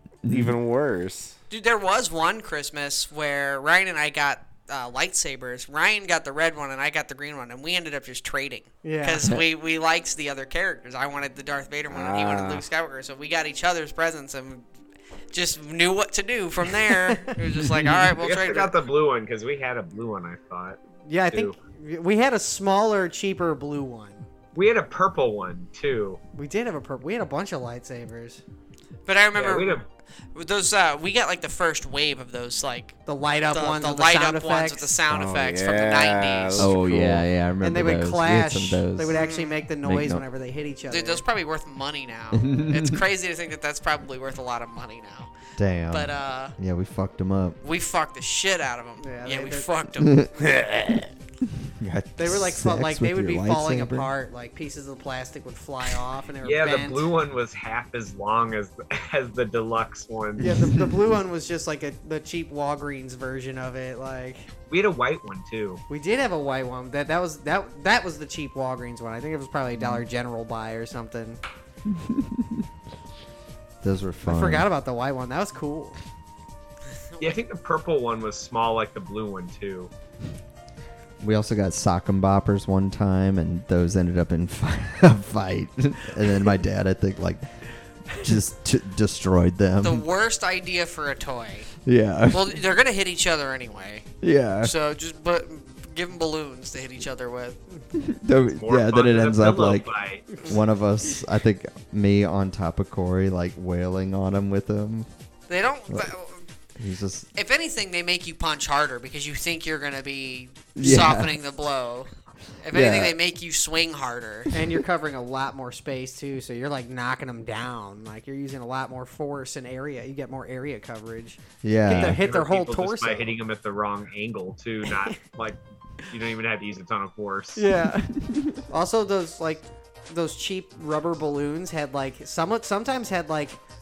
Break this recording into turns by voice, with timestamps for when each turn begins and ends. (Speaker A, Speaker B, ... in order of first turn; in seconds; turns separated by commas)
Speaker A: 0.2-0.6, Speaker B: 0.3-1.4, Speaker C: 1.5-14.7, Speaker D: 8.8-9.3, Speaker B: 11.9-12.7, Speaker C: 15.3-18.7, Speaker E: 18.1-20.8, Speaker D: 21.1-24.2, Speaker E: 21.3-21.6, Speaker E: 24.6-26.2, Speaker D: 26.4-28.4, Speaker C: 29.1-29.8, Speaker E: 29.4-29.9, Speaker C: 30.4-33.0, Speaker D: 33.1-34.9, Speaker C: 33.5-36.7, Speaker B: 35.1-37.3, Speaker A: 36.6-39.2, Speaker D: 37.6-41.2, Speaker C: 39.1-39.6, Speaker A: 39.8-40.2, Speaker C: 40.9-45.3, Speaker A: 42.3-43.0, Speaker A: 45.6-47.6, Speaker C: 45.9-46.6, Speaker C: 47.6-50.5, Speaker D: 49.0-49.7, Speaker A: 50.0-50.3, Speaker B: 50.4-51.1, Speaker A: 51.6-54.1, Speaker D: 52.2-57.1, Speaker E: 56.4-60.5, Speaker D: 60.4-64.5, Speaker A: 60.4-61.0, Speaker E: 64.7-65.8, Speaker D: 65.9-71.4, Speaker A: 71.9-72.6, Speaker A: 73.8-74.7, Speaker D: 74.2-76.0, Speaker E: 77.2-79.9, Speaker A: 81.2-87.5, Speaker A: 88.1-90.1, Speaker C: 89.8-91.7, Speaker A: 91.8-92.6, Speaker C: 92.3-94.1, Speaker A: 94.2-94.7, Speaker C: 94.6-97.6, Speaker A: 98.0-99.9, Speaker E: 98.5-100.5, Speaker A: 100.4-105.1, Speaker C: 105.5-106.4, Speaker A: 106.8-107.3, Speaker C: 107.3-112.1, Speaker A: 110.8-111.4, Speaker C: 112.6-114.5, Speaker A: 112.7-113.2, Speaker D: 114.5-123.3, Speaker A: 121.6-122.2, Speaker E: 121.9-127.6, Speaker D: 127.6-133.6, Speaker A: 128.1-128.6